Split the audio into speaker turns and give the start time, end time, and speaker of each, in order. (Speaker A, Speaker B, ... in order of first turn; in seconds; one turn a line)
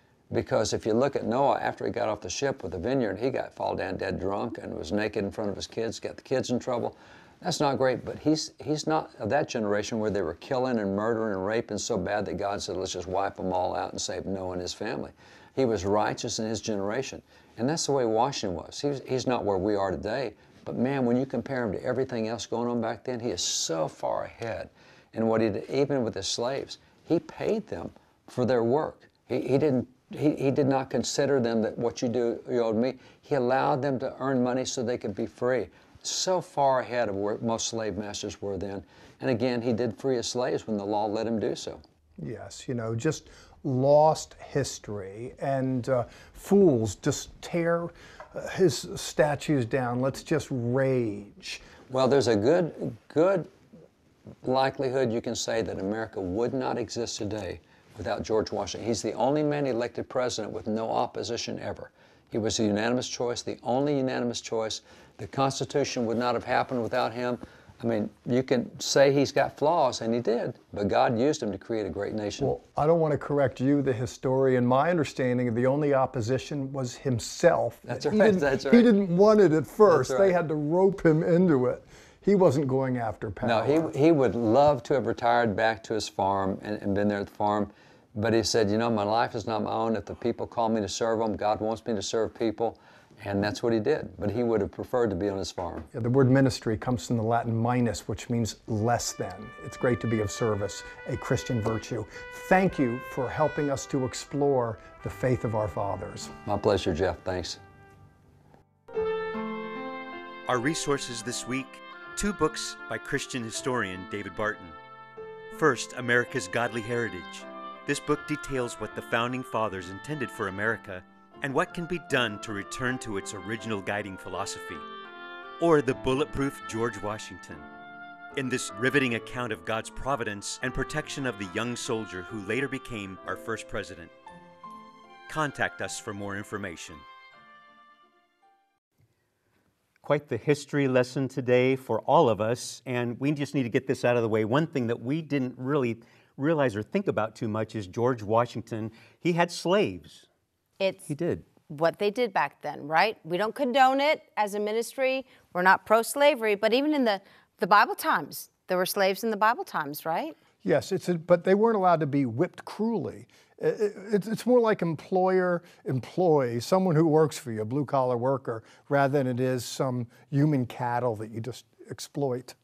Speaker A: 0.3-41.8
Speaker B: 42.2-51.6
Speaker A: 51.9-53.5
Speaker A: 54.4-72.5
Speaker B: 72.4-83.9
Speaker A: 77.9-78.9
Speaker A: 79.8-80.3
Speaker A: 83.4-95.9
Speaker B: 95.9-106.3
Speaker A: 106.5-107.6
Speaker C: 110.5-114.8
Speaker C: 115.5-124.9
Speaker C: 125.6-127.7
Speaker C: 128.3-134.1
Speaker C: 135.3-137.0
Speaker C: 140.0-150.3
Speaker D: 150.8-151.0
Speaker C: 151.1-151.5
Speaker D: 151.6-160.3
Speaker B: 160.6-172.6